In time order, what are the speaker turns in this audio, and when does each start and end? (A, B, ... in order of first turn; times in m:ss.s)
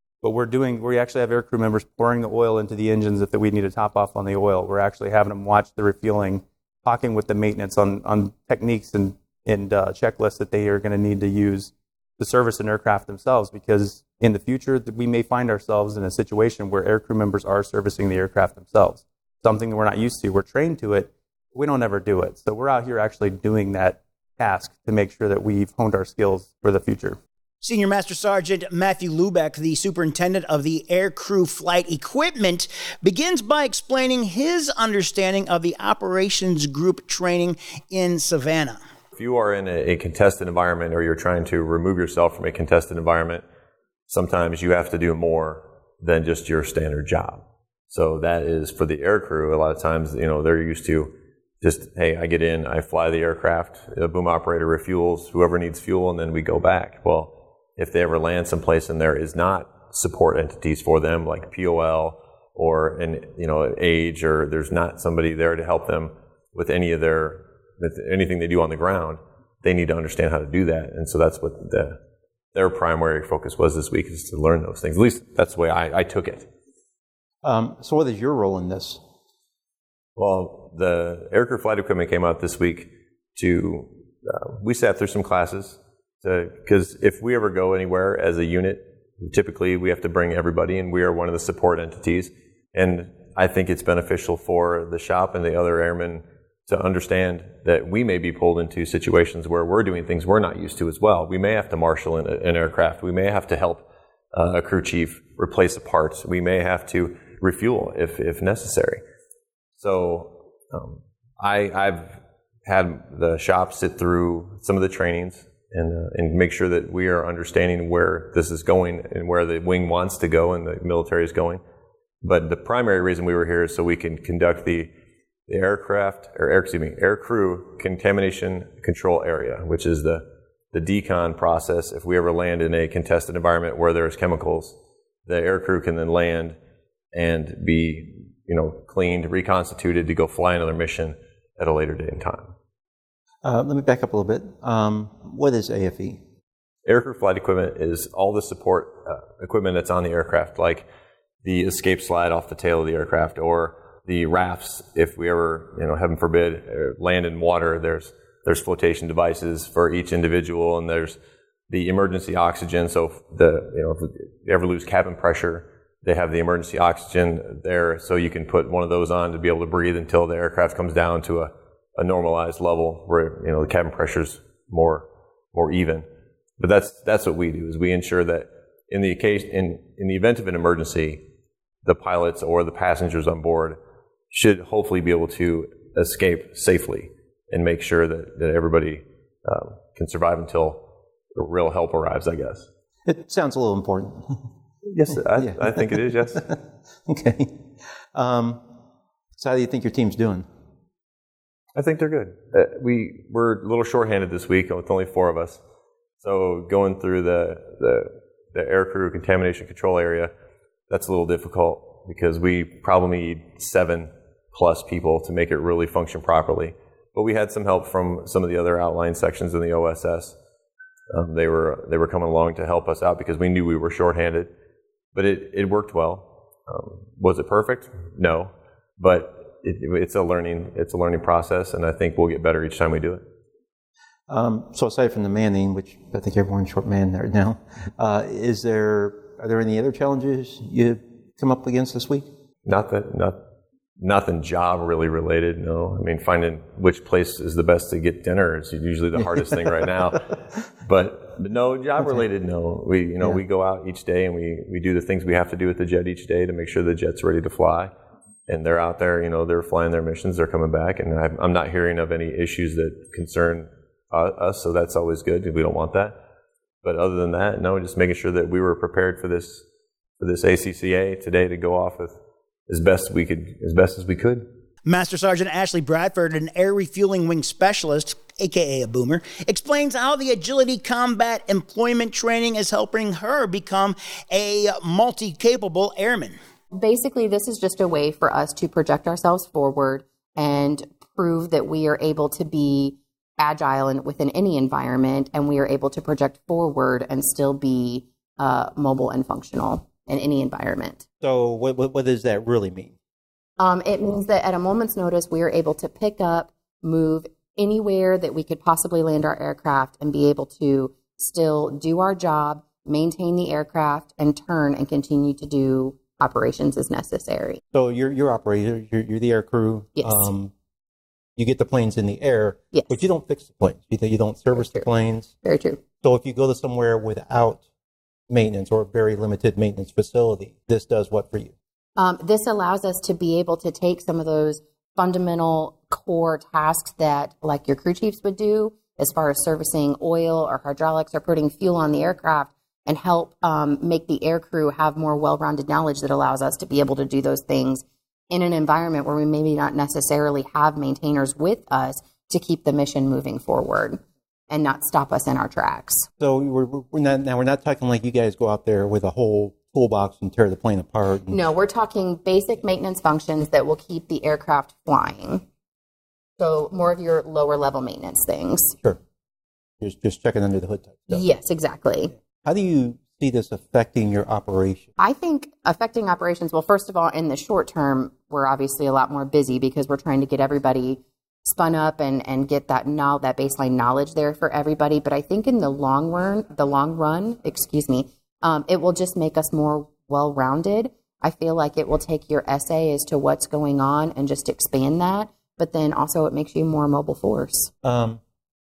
0:00.2-0:27.2 A
0:27.6-0:38.8 B
0:39.2-0:43.4 C
0:44.1-1:12.0 C
1:12.6-1:16.5 C
1:17.4-1:19.0 D
1:20.2-1:49.0 C
1:49.8-2:01.6 C
2:02.2-2:04.9 C
2:05.5-2:14.8 C
2:15.3-2:16.6 C
2:17.1-2:22.5 C
2:23.4-2:26.2 D
2:26.9-2:30.9 C
2:31.4-2:41.2 C
2:41.7-2:56.1 C
2:56.6-3:01.2 C
3:01.8-3:03.8 C
3:04.3-3:10.8 C
3:11.4-3:12.7 C
3:13.0-3:14.4 D
3:14.9-3:16.5 C
3:15.4-3:18.6 D
3:19.4-3:20.5 D
3:21.8-3:25.6 C
3:26.2-3:30.3 C
3:30.9-3:40.4 C
3:41.1-3:44.5 C
3:45.2-3:53.2 C
3:54.3-4:02.3 D
4:02.6-4:03.4 C
4:04.0-4:10.3 C
4:10.8-4:17.9 C
4:18.5-4:26.2 C
4:26.8-4:29.6 C
4:30.2-4:32.2 C
4:32.7-4:34.5 C
4:34.9-4:46.4 B
4:46.7-5:01.0 E
5:01.2-5:02.9 D
5:03.6-5:17.6 E
5:17.7-5:20.5 D
5:20.0-5:20.3 E
5:21.4-5:25.3 D
5:22.7-5:23.0 E
5:24.5-5:24.9 E
5:25.4-5:25.8 E
5:26.0-5:27.6 D
5:28.3-5:31.5 D
5:32.0-5:56.1 E
5:56.2-6:01.4 D
6:01.3-6:05.4 E
6:06.4-6:08.8 E
6:09.8-6:11.2 D
6:11.1-6:12.1 E
6:12.4-6:14.9 D
6:15.0-6:37.7 E
6:37.8-6:38.2 D